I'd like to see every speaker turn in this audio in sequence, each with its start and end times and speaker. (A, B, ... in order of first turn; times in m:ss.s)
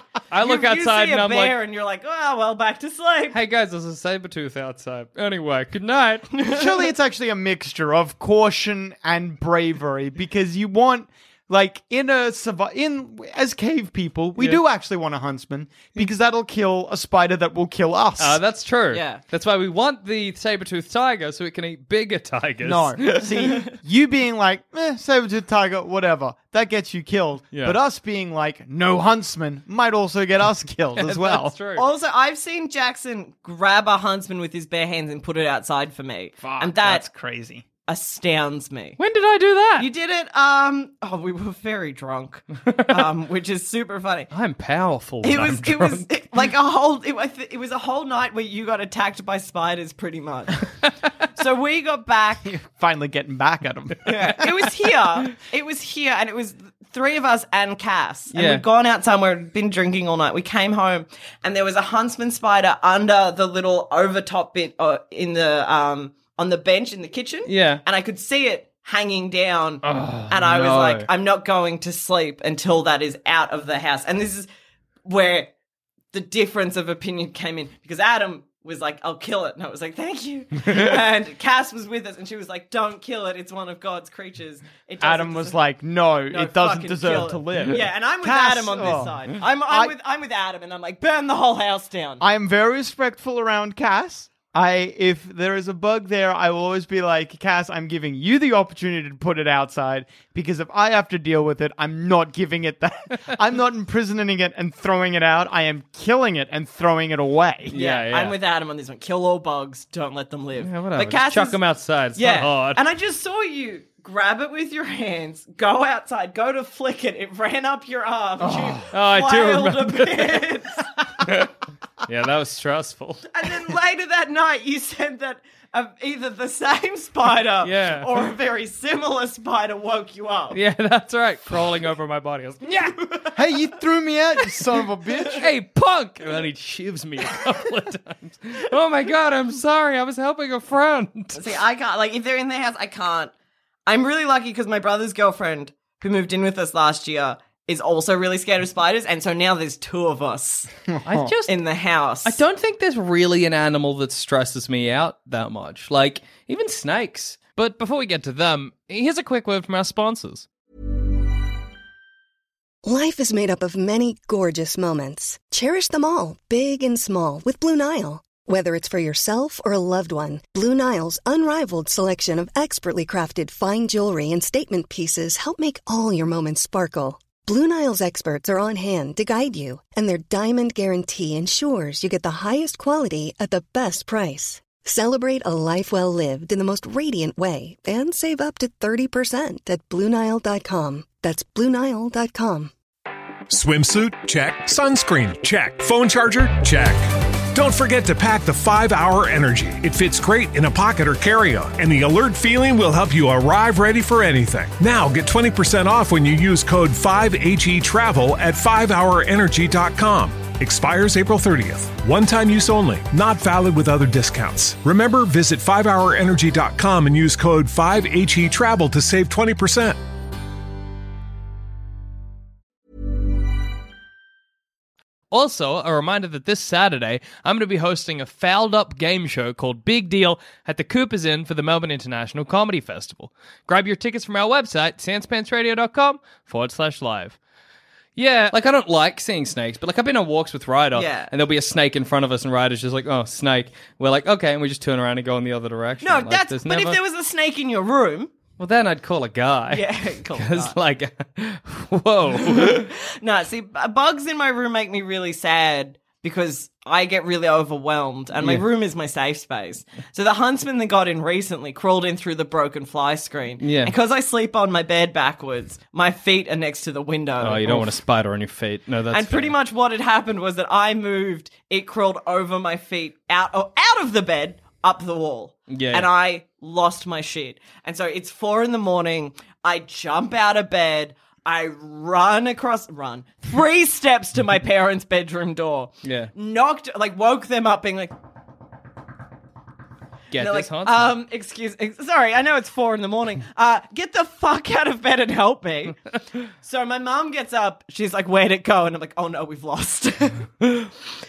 0:00.3-0:01.5 A
0:00.4-0:03.4 B
0:03.3-0:06.3 A
0:06.4-0:06.7 B
0:06.5-0:18.4 C
0:18.2-0:23.3 A
0:18.9-0:19.2 B
0:22.6-0:31.5 C
0:27.5-0:27.8 A
0:31.0-0:31.8 A
0:31.8-0:37.0 B
0:36.4-0:37.6 C
0:37.9-0:39.0 B
0:39.0-0:39.9 A
0:39.8-0:44.3 B
0:42.6-0:43.0 A
0:44.3-0:46.1 A
0:45.2-0:50.7 B
0:51.3-0:52.5 B
0:52.4-0:54.5 C
0:54.0-1:14.5 B
0:58.3-0:58.6 A
1:07.4-1:07.8 A
1:09.9-1:11.0 A
1:09.9-1:10.3 C
1:15.0-1:15.5 B
1:16.1-1:25.6 B
1:25.0-1:29.9 C
1:26.3-1:32.2 B
1:32.2-1:47.7 C
1:47.7-1:48.3 A
1:47.7-1:51.6 B
1:50.6-1:52.8 A
1:52.1-2:01.1 B
1:58.4-1:58.8 C
1:58.9-2:00.4 A
2:01.2-2:01.5 A
2:02.0-2:03.2 A
2:03.3-2:10.6 B
2:07.6-2:08.1 A
2:10.5-2:13.0 A
2:12.7-2:13.4 B
2:13.3-2:15.5 C
2:15.4-2:21.4 A
2:21.3-2:23.3 B
2:23.8-2:30.7 B
2:30.9-2:31.3 C
2:31.0-2:31.6 A
2:31.5-2:32.4 B
2:32.2-2:40.5 A
2:42.8-3:12.7 D
3:13.5-3:40.0 E
3:45.3-3:57.4 A
3:58.2-4:07.0 A
4:00.9-4:01.3 B
4:06.0-4:08.3 B
4:08.6-4:09.8 A
4:09.7-4:10.8 B
4:10.4-4:12.9 A
4:12.4-4:27.9 B
4:23.6-4:23.9 A
4:27.4-4:29.5 A
4:29.1-4:48.1 B
4:35.7-4:36.1 A
4:46.0-4:46.3 A
4:50.3-4:51.1 A
4:50.4-5:00.7 B